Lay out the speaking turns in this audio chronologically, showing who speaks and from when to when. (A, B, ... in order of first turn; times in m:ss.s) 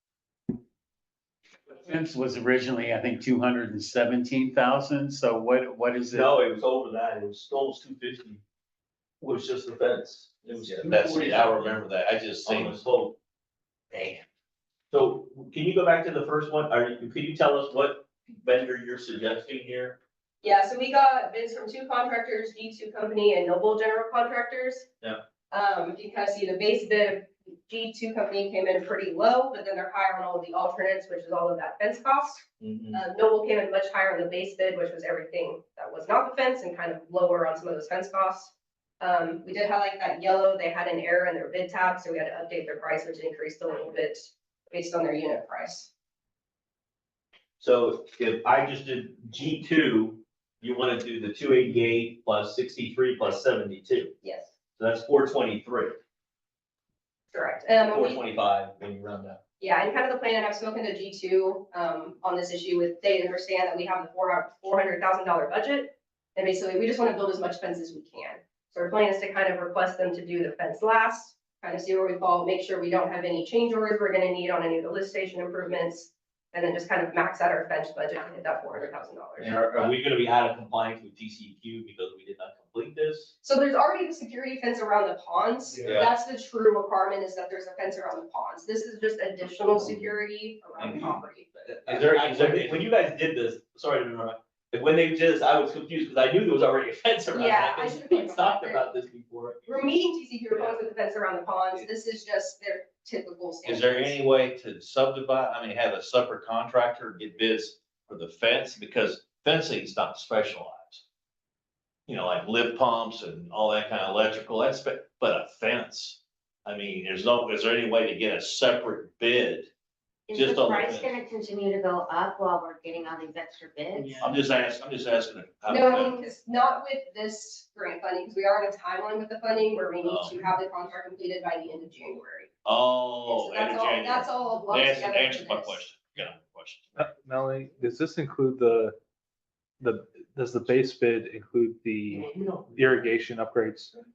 0:01.7-0:06.3 A
0:06.1-0:08.4 B
0:09.2-0:11.5 B
0:10.8-0:12.8 C
0:12.4-0:13.2 B
0:14.9-0:20.0 B
0:20.4-0:24.9 D
0:25.5-0:45.9 D
0:32.6-0:33.0 B
0:47.6-0:54.1 B
0:54.2-0:54.5 D
0:54.8-0:56.0 B
0:57.3-0:58.2 D
0:57.9-0:59.4 B
0:59.6-1:19.9 D
1:19.4-1:23.3 B
1:23.4-1:31.5 D
1:25.8-1:26.1 B
1:30.8-1:39.8 B
1:31.9-1:32.8 C
1:37.3-1:38.9 D
1:39.7-1:44.2 D
1:43.6-1:51.0 C
1:52.1-1:59.7 C
2:00.3-2:04.3 E
2:00.3-2:01.1 C
2:04.2-2:06.2 C
2:05.7-2:12.5 D
2:10.0-2:10.4 C
2:12.6-2:17.1 C
2:13.3-2:15.8 D
2:17.0-2:19.0 F
2:19.8-2:23.9 F